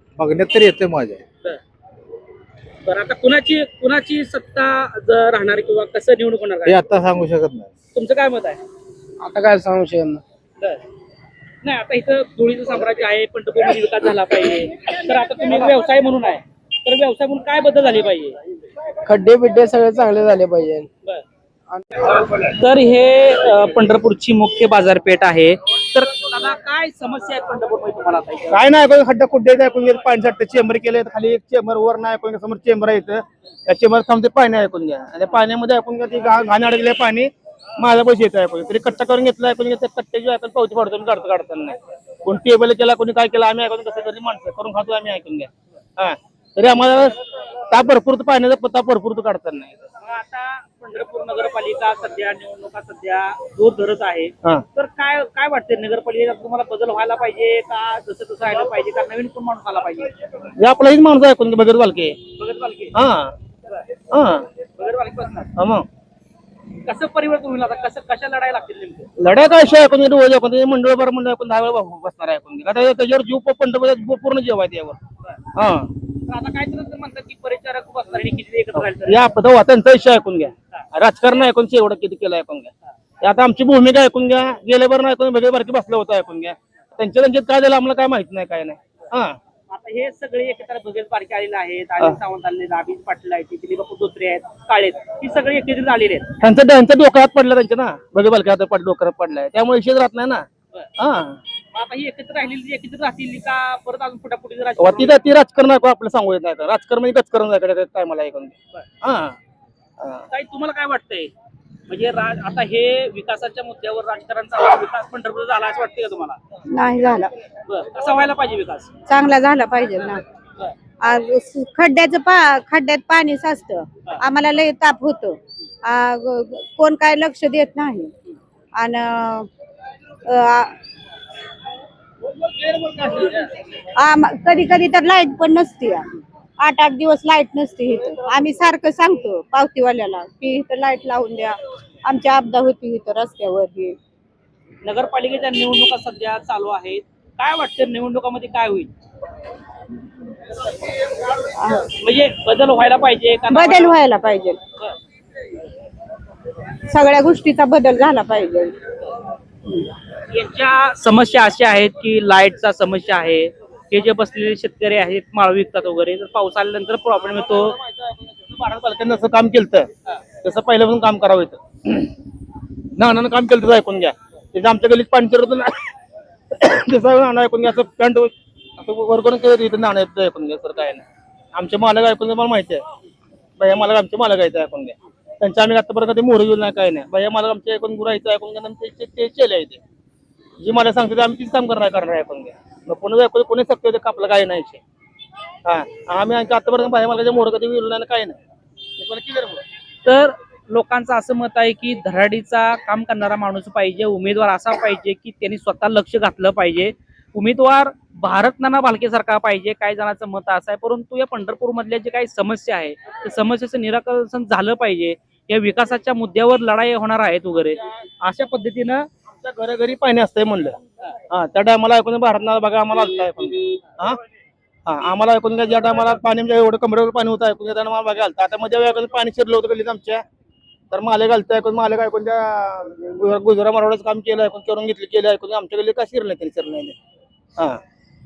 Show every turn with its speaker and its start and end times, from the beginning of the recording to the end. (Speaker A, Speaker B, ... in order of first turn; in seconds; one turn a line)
Speaker A: 0.2-1.2
Speaker B: 2.8-6.8
Speaker A: 6.7-7.7
Speaker B: 7.9-8.6
Speaker C: 9.2-10.2
Speaker B: 11.6-18.4
Speaker C: 19.1-20.9
Speaker B: 22.1-28.6
Speaker D: 28.5-47.2
Speaker D: 47.7-49.8
Speaker B: 50.0-60.1
Speaker D: 60.6-62.2
Speaker B: 62.4-62.9
Speaker D: 62.9-63.3
Speaker D: 64.1-64.5
Speaker B: 64.8-65.5
Speaker D: 65.6-65.9
Speaker B: 66.8-69.1
Speaker D: 69.2-75.0
Speaker D: 75.5-75.9
Speaker B: 76.3-79.2
Speaker D: 78.7-82.7
Speaker D: 83.2-89.4
Speaker B: 89.7-96.3
Speaker D: 96.4-100.5
Speaker D: 101.0-101.4
Speaker B: 101.7-105.2
Speaker D: 104.8-109.4
Speaker D: 110.0-110.2
Speaker B: 110.3-111.3
Speaker B: 111.9-116.4
Speaker E: 116.7-117.3
Speaker B: 117.7-118.9
Speaker E: 119.1-120.2
Speaker E: 121.0-128.1
Speaker E: 128.8-129.5
Speaker E: 130.3-130.7
Speaker E: 134.0-136.0
Speaker E: 136.6-143.9
Speaker B: 144.8-148.9
Speaker E: 151.6-151.8
Speaker B: 152.0-154.0
Speaker E: 153.6-154.6
Speaker E: 156.9-158.7
Speaker B: 160.3-167.8
Speaker D: 168.5-169.9
Speaker D: 170.4-172.1
Speaker D: 173.0-175.8
Speaker D: 176.5-182.8
Speaker D: 183.6-189.8
Speaker D: 190.6-194.8
Speaker D: 195.7-198.4
Speaker D: 199.0-199.6
Speaker B: 200.0-219.1
Speaker D: 219.4-220.8
Speaker D: 221.3-224.2
Speaker D: 224.9-230.2
Speaker D: 230.9-236.9